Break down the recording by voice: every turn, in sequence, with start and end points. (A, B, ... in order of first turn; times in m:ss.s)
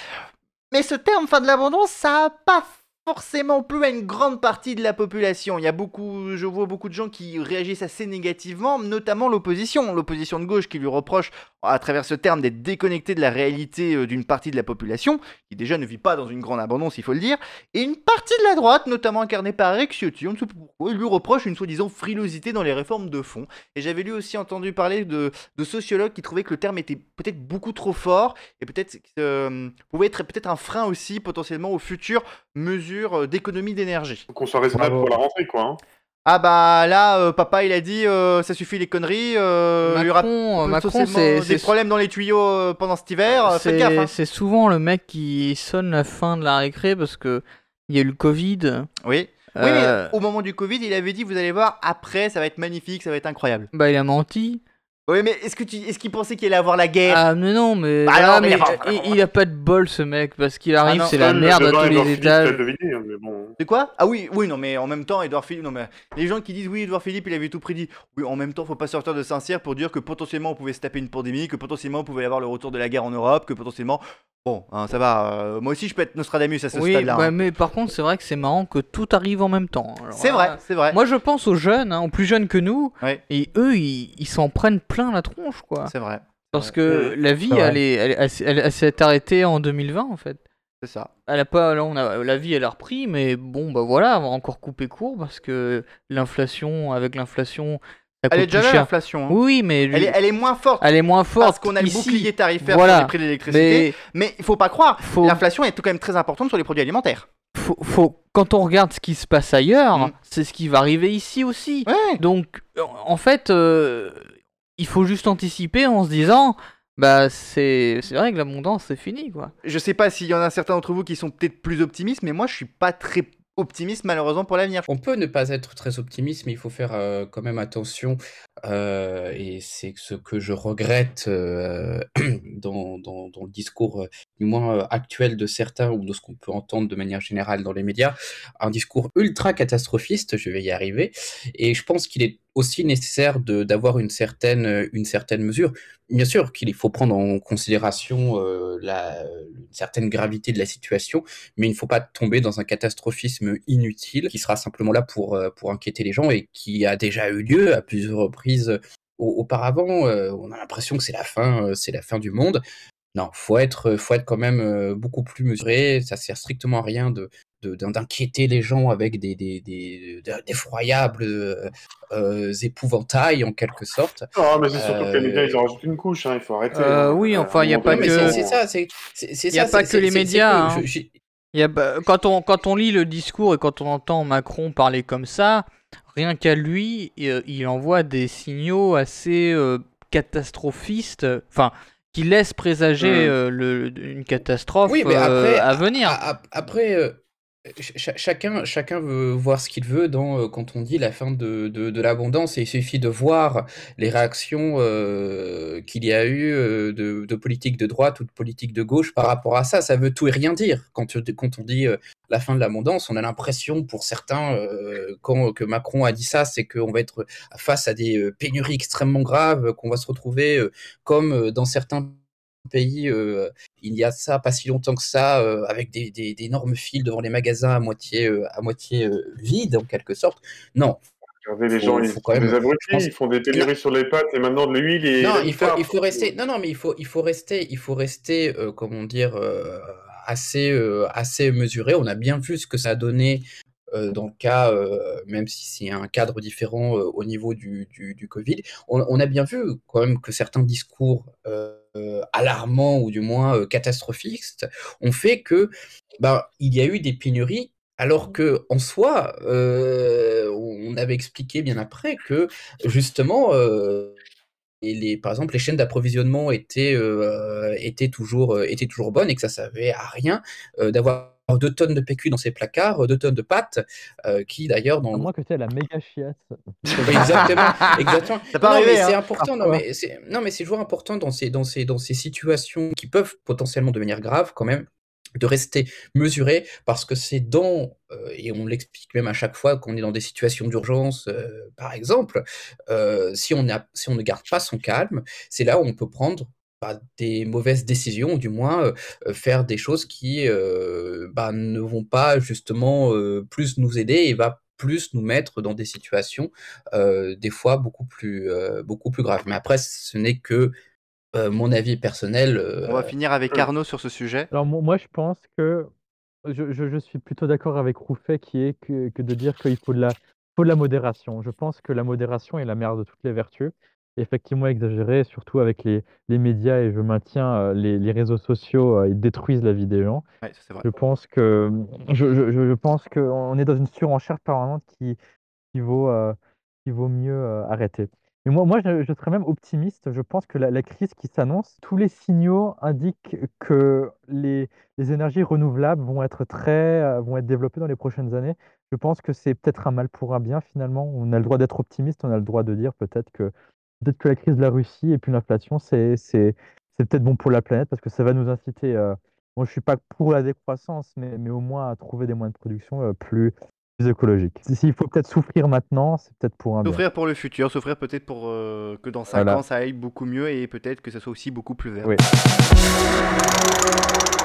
0:00.7-0:34.3 A
0:34.3-0:35.8 B
0:34.7-0:35.1 C
0:36.3-0:44.1 A
0:39.8-0:41.7 D
0:43.3-0:48.9 D
0:49.0-0:53.7 A
0:49.5-0:50.1 D
0:53.7-0:54.6 D
0:55.1-0:57.2 A
0:57.1-1:02.6 D
0:58.0-0:59.2 A
1:00.9-1:01.1 A
1:01.0-1:03.6 B
1:03.6-1:17.3 A
1:16.7-1:25.9 D
1:20.2-1:21.0 A
1:25.9-1:26.7 A
1:26.5-1:30.4 D
1:26.9-1:27.2 B
1:27.5-1:27.8 C
1:30.8-1:31.1 A
1:31.3-1:40.2 D
1:38.3-1:39.4 A
1:39.9-1:40.9 A
1:40.8-1:44.0 D
1:41.4-1:47.3 A
1:45.0-1:45.4 D
1:47.6-1:54.2 D
1:51.9-1:52.2 A
1:54.8-1:59.5 D
1:59.6-2:04.9 A
2:04.9-2:42.6 E
2:43.1-2:55.6 E
2:54.4-2:58.6 B
2:56.7-2:58.4 D
2:57.9-3:01.1 E
2:59.5-3:00.9 D
3:01.5-3:16.2 D
3:14.9-3:51.0 E
3:51.4-3:56.3 B
3:51.8-3:53.7 E
3:55.2-4:24.2 E
4:24.8-4:35.3 E
4:35.1-4:37.5 C
4:36.9-4:39.4 A
4:37.0-5:10.7 E
5:11.3-5:13.1 E
5:12.9-5:14.5 A
5:14.5-5:15.9 C
5:16.4-5:30.2 C
5:30.4-5:30.9 A
5:30.8-5:35.2 C
5:35.7-6:07.0 C
6:06.8-6:12.2 A
6:09.3-6:09.6 C